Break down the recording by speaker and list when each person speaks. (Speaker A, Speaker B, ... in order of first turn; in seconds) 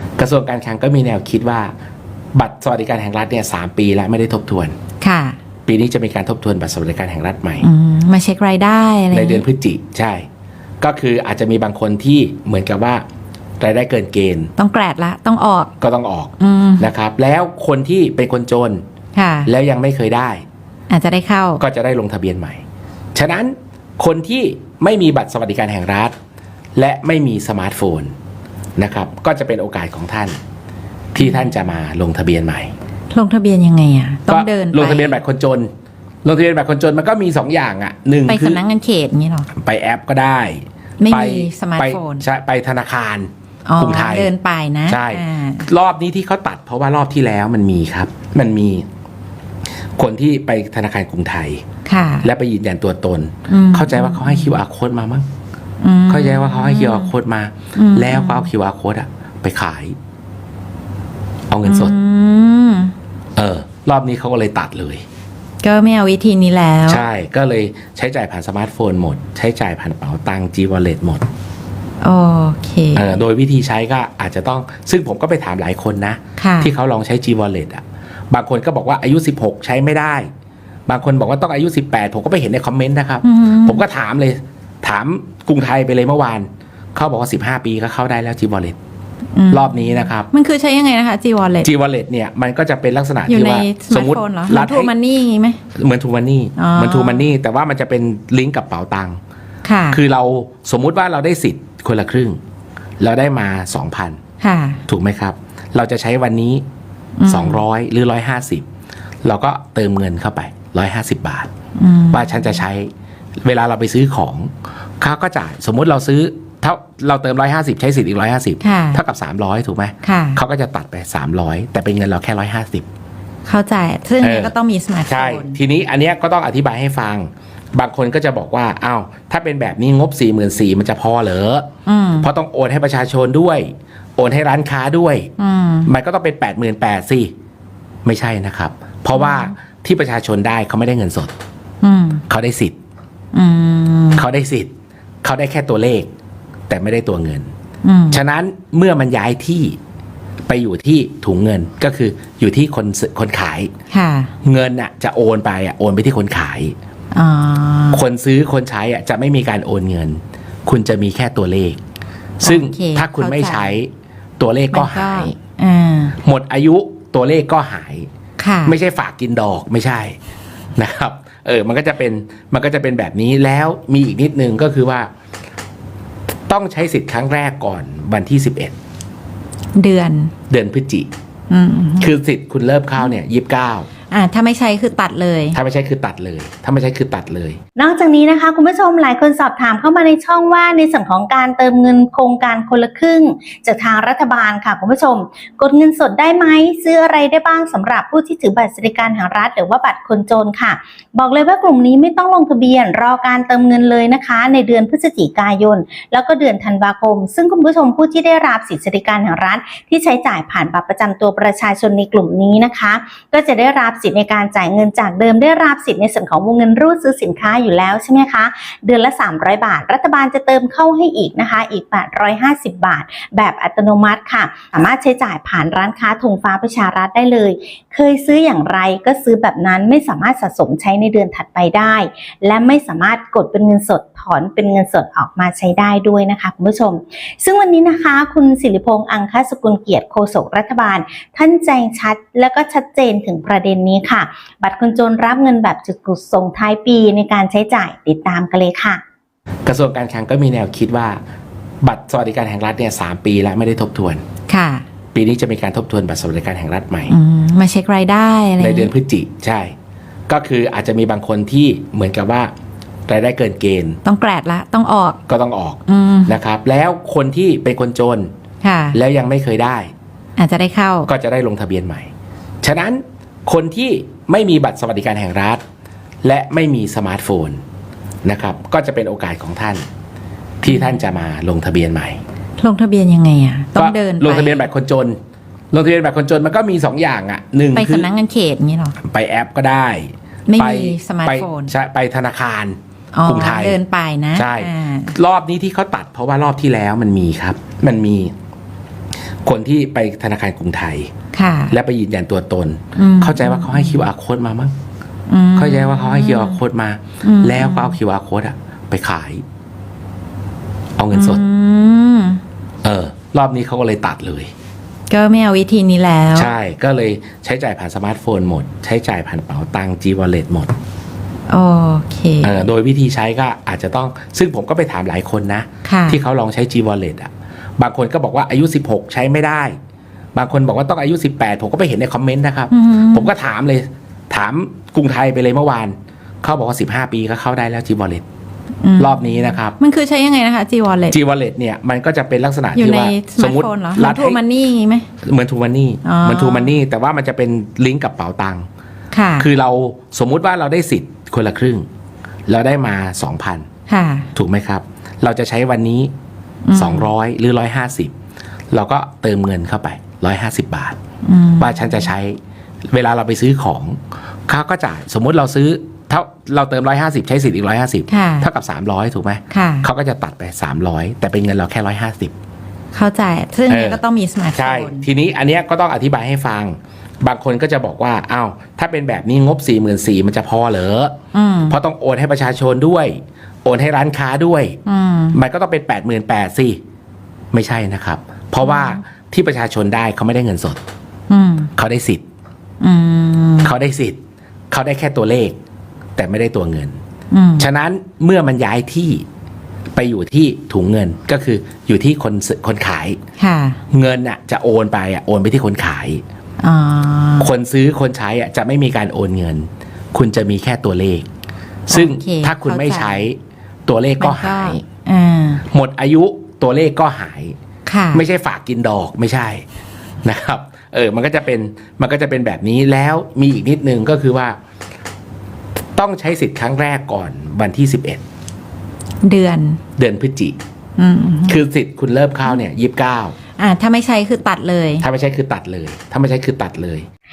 Speaker A: 0.2-1.7, 2.3-4.8, 5.7-7.7, 9.1-10.2, 10.8-13.0, 13.6-14.5, 15.8-18.8, 19.4-20.4, 21.6-22.6, 23.1-26.1, 26.8-28.1, 28.8-30.4, 31.1-32.7, 34.3-35.7, 36.2-38.6, 39.5-44.3, 44.9-48.9, 50.0-51.6, 52.2-55.2, 56.1-60.0, 61.5-62.0, 63.4-65.0, 66.9-71.2, 72.9-80.3, 80.9-88.8, 89.5-90.3, 91.6-94.9, 95.7-99.2, 99.9-102.4, 103.0-104.2, 104.9-106.6, 107.3-108.6, 109.2-111.5, 112.1-112.9, 113.4-122.8, 124.2-124.5, 125.1-131.7, 132.2-135.3, 135.8-137.3, 138.0-141.3, 142.3-142.7, 144.2-144.7, 145.2-146.1, 146.7-147.5, 148.1-149.8, 150.5-153.7, 154.4-156.8, 157.9-161.8, 162.4-165.4, 166.2-168.1, 168.6-170.2, 170.8-175.1, 176.5-178.7, 180.5-181.1, 182.0-183.9, 185.5-187.6, 249.6-251.2, 251.8-254.2, 255.1-257.1, 258.6-259.7, 260.3-262.5, 263.1-264.0, 265.3-268.3, 268.9-269.9, 271.1-272.1, 272.6-275.6, 276.2-277.6, 278.2-279.9, 280.6-282.2, 283.8-285.1, 285.7-288.1, 289.0-293.8, 294.3-298.3, 299.4-301.1, 301.7-304.7, 305.5-309.4, 311.0-311.4, 312.8-314.5, 316.3-320.7, 322.4-329.7, 330.3-338.2, 339.0-339.8, 341.1-344.4, 345.2-348.7, 349.4-351.9, 352.5-353.6, 354.3-356.1, 356.7-358.1, 358.7-361.0, 361.6-362.4, 362.9-372.3, 373.7-374.0, 374.5-381.1, 381.7-384.8, 385.3-386.8, 387.5-390.8, 391.8-392.2, 393.6-394.2, 394.7-395.6, 396.1-397.0, 397.6-399.2, 399.9-403.2, 403.9-406.2, 407.4-411.3, 411.9-414.8, 415.7-417.6, 418.1-419.6, 420.2-424.6, 425.9-428.2, 430.0-430.6, 431.5-433.4, 435.0-437.1
Speaker B: 5.0-5.4, 7.6-9.4, 14.6-15.7, 16.4-16.9, 19.1-19.5, 20.9-21.6, 31.2-31.5, 33.1-35.2, 38.3-39.5, 41.0-42.2, 43.6-45.7, 51.9-52.3, 53.5-54.6, 55.8-57.1, 57.7-58.5, 61.6-62.9, 65.6-67.0, 72.0-73.1, 76.4-76.7, 83.2-83.8, 89.3-91.7, 93.3-95.6, 96.6-97.3, 99.6-100.0, 104.4-104.8, 107.2-107.6, 111.8-112.6, 118.6-119.0, 120.0-120.4, 123.5-125.6, 131.8-132.3, 135.4-135.9, 139.1-139.5, 141.8-142.2, 143.3-144.2, 147.8-148.2, 153.9-154.3, 157.1-158.0, 162.4-163.7, 164.7-166.2, 168.4-168.8, 179.7-180.3, 181.5-182.1, 184.1-185.6, 254.5-254.8, 257.1-258.9, 264.0-265.2, 265.9-266.4, 268.6-269.0, 270.4-271.1, 280.6-281.0, 282.6-284.7, 287.8-289.0, 290.5-291.7, 293.1-295.2, 301.3-301.8, 302.9-304.1, 305.3-306.6, 307.2-308.0, 311.1-312.4, 315.1-316.5, 321.5-322.6, 325.8-326.2, 332.7-333.3, 338.8-341.2, 342.7-345.1, 346.0-346.8, 349.1-349.5, 353.9-354.3, 356.6-357.1, 361.2-362.1, 368.1-368.5, 369.5-369.9, 372.9-375.1, 381.3-381.8, 384.9-385.4, 388.6-389.0, 391.3-391.7, 392.8-393.7, 397.3-397.7, 403.4-403.8, 406.6-407.5, 411.9-413.3, 414.2-415.6, 417.9-418.2, 429.2-429.8, 431.0-431.6, 433.6-435.0
Speaker C: 187.8-249.0